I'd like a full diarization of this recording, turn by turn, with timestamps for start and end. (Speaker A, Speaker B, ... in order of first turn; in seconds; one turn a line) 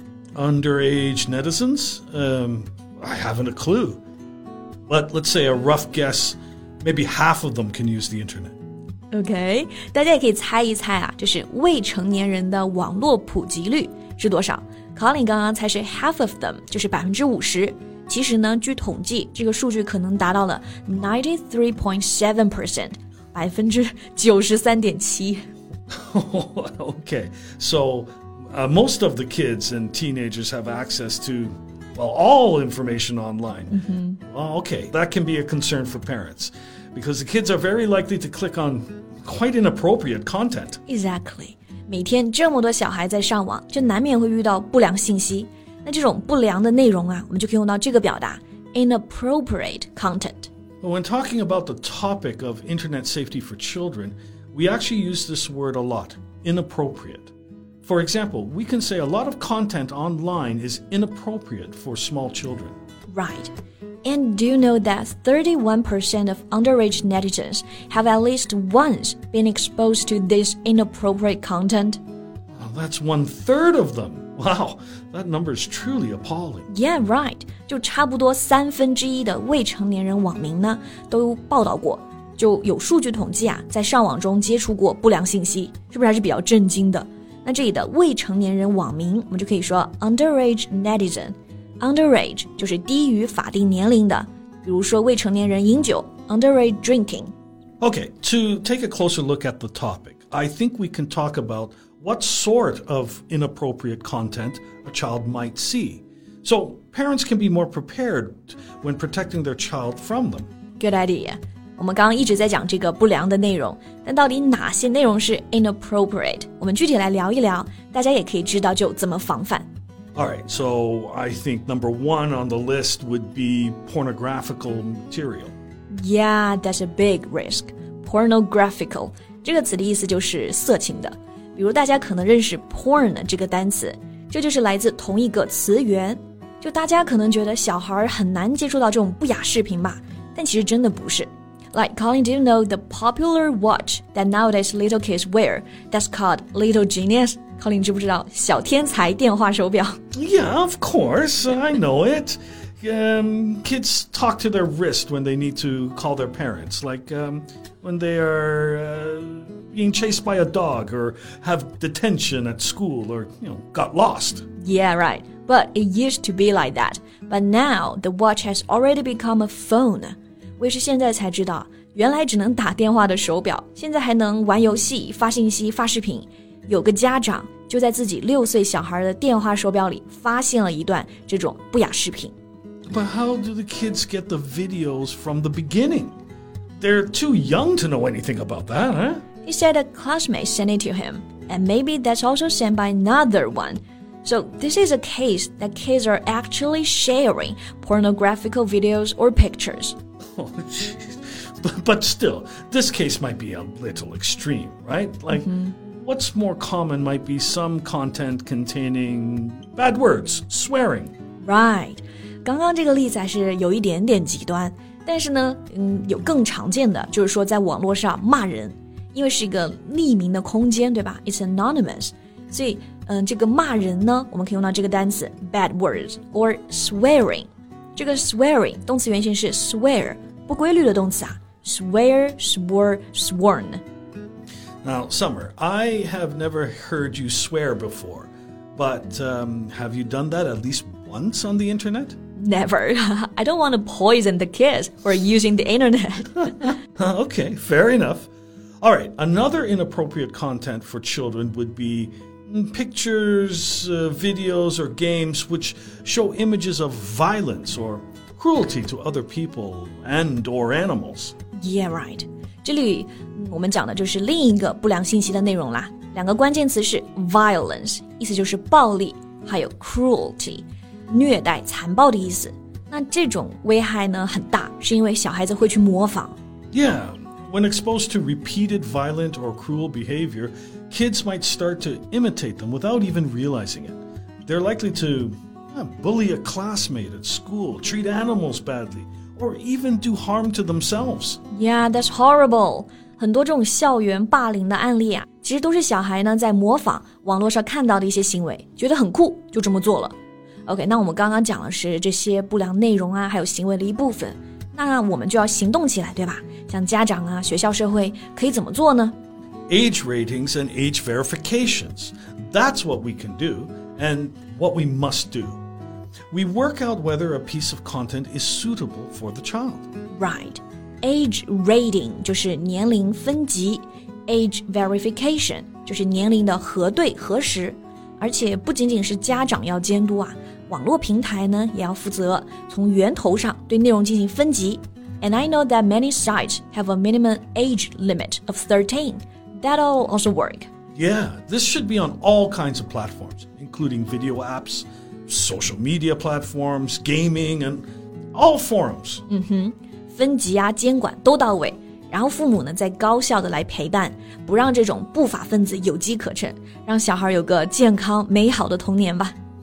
Speaker A: 0.3-4.0
Speaker A: 4.9-8.5
Speaker B: 9.1-25.5
Speaker A: 25.9-40.8
Speaker B: 33.7-34.2
Speaker B: 40.9-50.5
Speaker A: 50.8-57.3
Speaker A: 57.8-62.8
Speaker B: 63.1-63.5
Speaker B: 64.0-72.0
Speaker A: 72.5-76.7
Speaker B: 76.7-97.3
Speaker A: 97.8-110.5
Speaker B: 110.8-119.7
Speaker A: 120.1-125.5
Speaker B: 125.9-150.0
Speaker A: 150.1-164.5
Speaker B: 164.6-182.3
Speaker A: 182.9-186.2
Speaker A: 186.8-189.2
Speaker B: 189.4-200.0
Speaker A: 200.3-211.1
Speaker B: 205.3-205.7
Speaker B: 211.4-233.8
Speaker A: 234.8-242.2
Speaker B: 242.3-246.7
Speaker A: 246.9-248.3
Speaker A: 248.8-261.3
Speaker B: 261.6-276.4
Speaker A: 276.7-291.4
Speaker B: 291.5-300.1
Speaker B: 300.6-309.2
Speaker A: 309.7-315.6
Speaker A: 316.3-319.9
Speaker B: 320.2-340.7
Speaker A: 340.9-349.2
Speaker B: 349.3-359.3